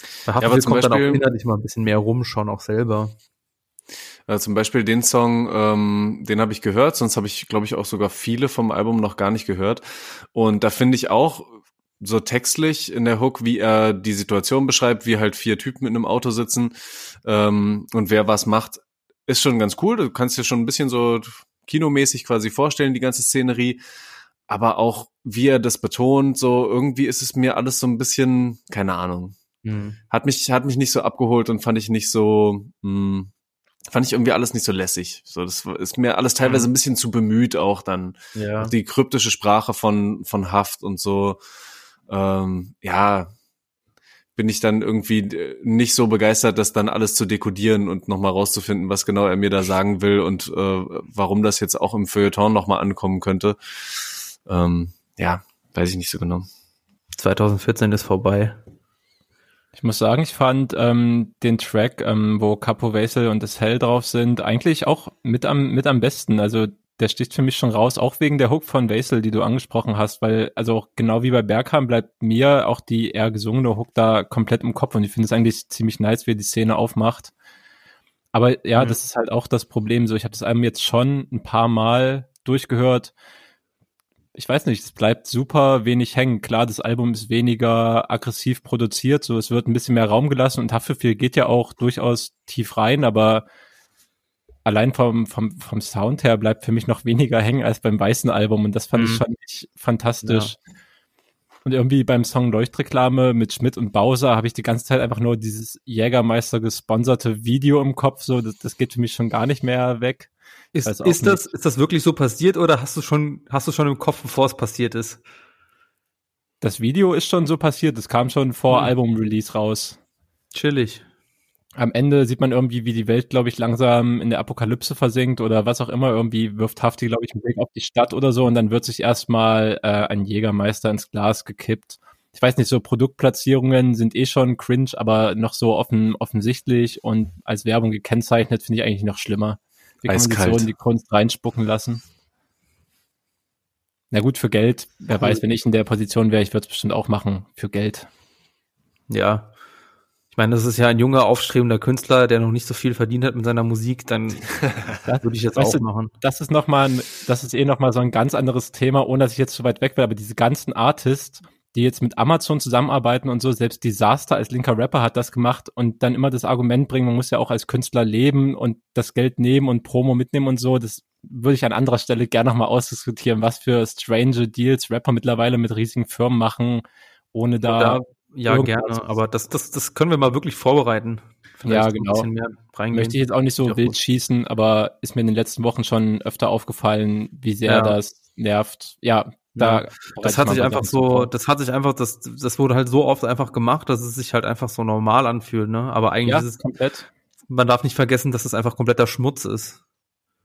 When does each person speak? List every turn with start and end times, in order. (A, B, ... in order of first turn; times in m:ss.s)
0:00.2-0:03.1 A
0:00.4-0:01.2 B
0:04.3-0:23.8 B
0:24.5-0:29.4 B
0:29.6-0:30.0 A
0:30.1-0:33.3 B
0:33.9-0:41.4 B
0:36.4-0:36.7 A
0:38.3-0:38.7 A
0:42.1-0:43.3 B
0:44.4-0:53.6 B
0:54.4-0:56.5 B
0:57.2-0:58.6 A
0:59.8-1:17.3 C
1:18.3-1:23.1 C
1:24.3-1:33.4 C
1:34.6-1:40.6 C
1:38.9-1:39.2 A
1:40.2-1:40.5 A
1:41.6-1:50.3 C
1:50.7-1:55.2 A
1:50.8-1:51.4 C
1:56.6-2:00.0 C
2:00.5-2:01.0 A
2:01.8-2:22.0 C
2:20.1-2:20.7 B
2:24.1-2:28.1 C
2:29.1-2:29.5 A
2:30.3-2:36.1 A
2:35.0-2:59.2 C
2:57.6-3:04.0 A
3:01.6-3:02.3 C
3:02.9-3:11.3 C
3:07.6-3:08.0 A
3:09.5-3:16.6 A
3:16.2-3:17.1 C
3:17.5-3:19.8 A